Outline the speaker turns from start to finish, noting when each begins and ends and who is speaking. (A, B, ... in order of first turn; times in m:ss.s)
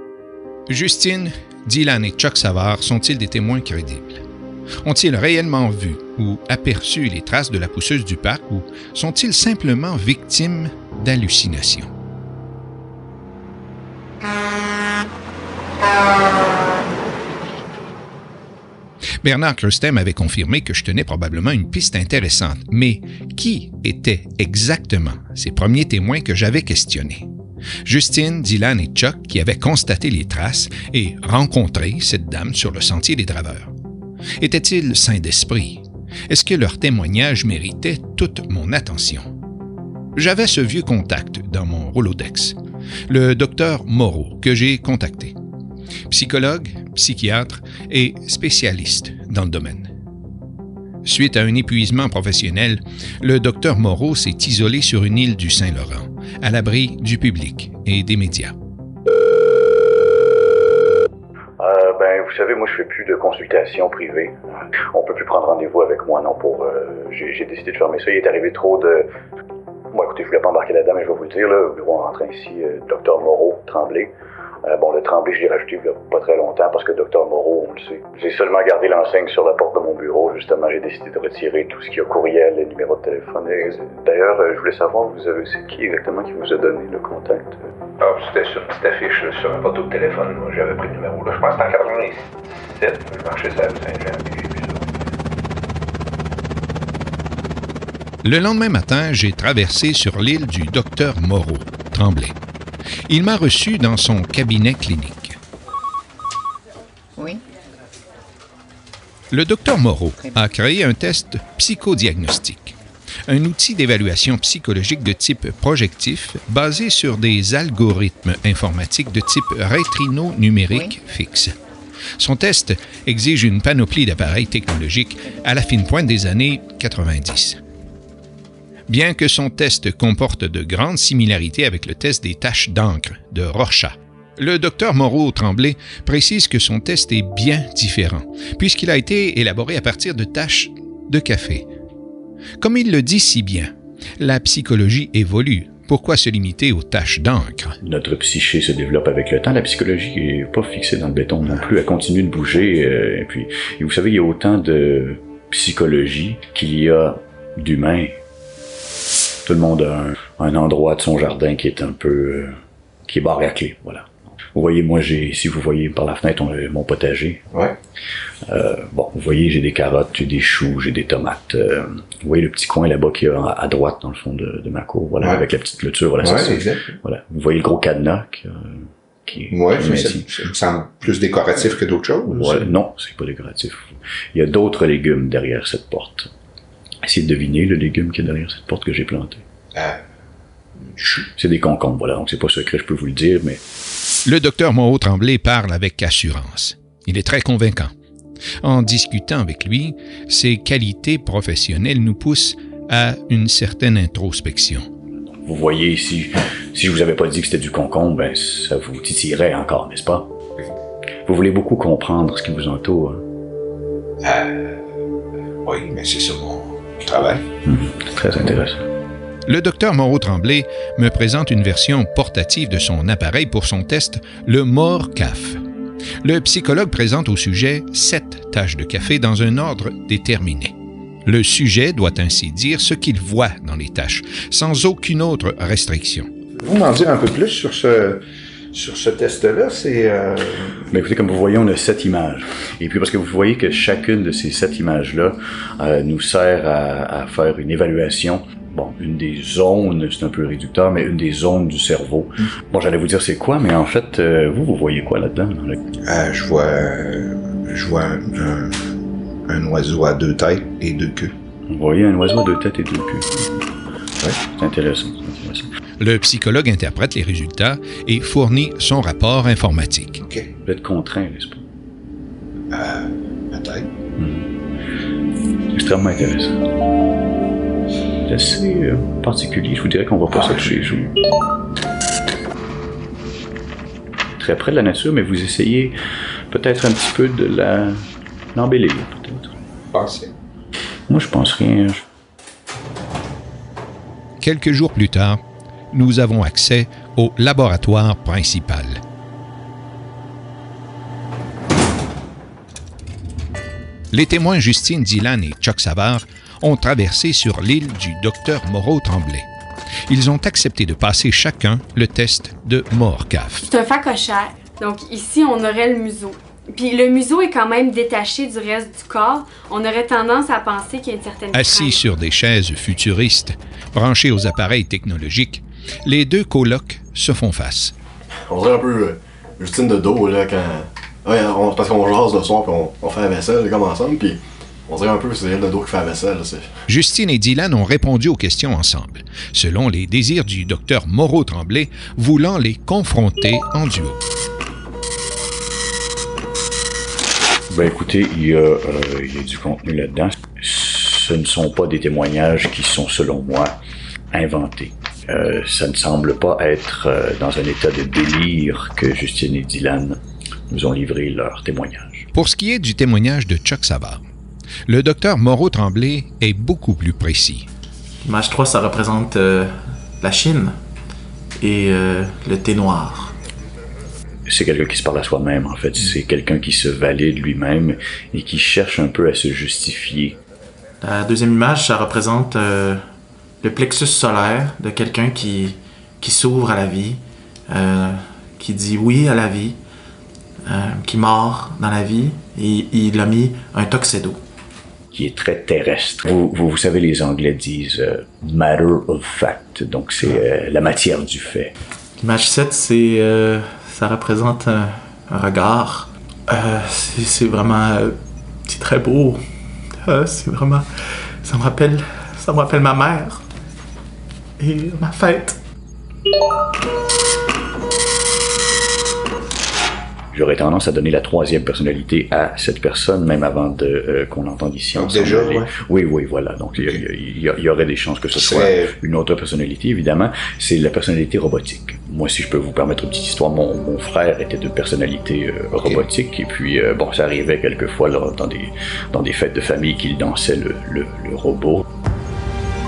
0:00.7-0:04.2 A
0:04.8-0:11.9 A
0:19.2-0:27.2 A
0:27.8-0:33.7 A
0:34.4-0:39.3 A
0:40.2-0:42.6 A
0:43.1-0:45.4 A
0:46.1-0:49.9 A
0:51.0-0:58.5 A
1:01.6-1:09.1 B
1:09.9-1:14.1 B
1:14.6-1:27.6 B
1:28.0-1:35.0 A
1:38.2-1:42.3 A
1:43.1-1:45.4 A
1:49.3-1:52.7 A
1:53.2-2:01.6 A
2:02.2-2:07.6 A
2:08.9-2:21.7 A
2:22.6-2:27.8 A
2:27.8-2:38.2 B
2:39.4-2:42.5 B
2:43.0-2:47.4 B
2:48.4-3:00.2 B
2:56.2-2:57.0 C
2:59.5-3:02.7 C
3:02.3-3:06.3 B
3:07.0-3:09.4 B
3:09.7-3:10.0 C
3:10.8-3:11.3 C
3:11.4-3:13.6 B
3:14.2-3:17.9 A
3:18.6-3:24.9 A
3:25.3-3:30.3 B
3:31.2-3:33.2 B
3:34.2-3:34.8 C
3:35.6-3:37.4 C
3:37.6-3:38.8 B
3:39.5-3:45.6 A
3:46.2-3:50.7 A
3:51.2-3:56.3 A
3:56.6-3:58.2 C
3:58.7-4:00.9 C
4:00.9-4:15.8 B
4:16.1-4:19.0 C
4:19.5-4:21.3 C
4:21.7-4:23.6 B
4:24.4-4:25.7 B
4:26.0-4:30.2 A
4:30.2-4:30.5 C
4:30.6-4:31.6 B
4:32.7-4:33.9 C
4:34.2-4:34.5 B
4:35.7-4:36.6 B
4:38.2-4:41.1 B
4:40.3-4:40.9 C
4:44.4-4:46.0 B
4:46.5-4:49.5 B
4:49.9-4:50.3 C
4:51.1-4:52.0 B
4:54.4-4:55.4 A
4:55.9-4:59.0 A
5:04.1-5:09.5 A
5:10.1-5:13.6 A
5:13.6-5:22.0 D
5:21.5-5:27.9 A
5:28.5-5:36.7 E
5:36.9-5:44.2 A
5:47.7-5:53.8 B
5:54.3-6:02.3 B
6:02.3-6:04.2 A
6:04.9-6:07.7 A
6:08.2-6:10.8 F
6:11.6-6:13.3 F
6:14.4-6:20.4 B
6:21.0-6:23.0 F
6:23.6-6:29.8 F
6:30.6-6:34.4 F
6:35.1-6:41.7 B
6:42.2-6:53.4 F
6:54.6-6:55.6 F
7:00.3-7:21.8 B
7:04.9-7:05.7 C
7:08.3-7:08.9 C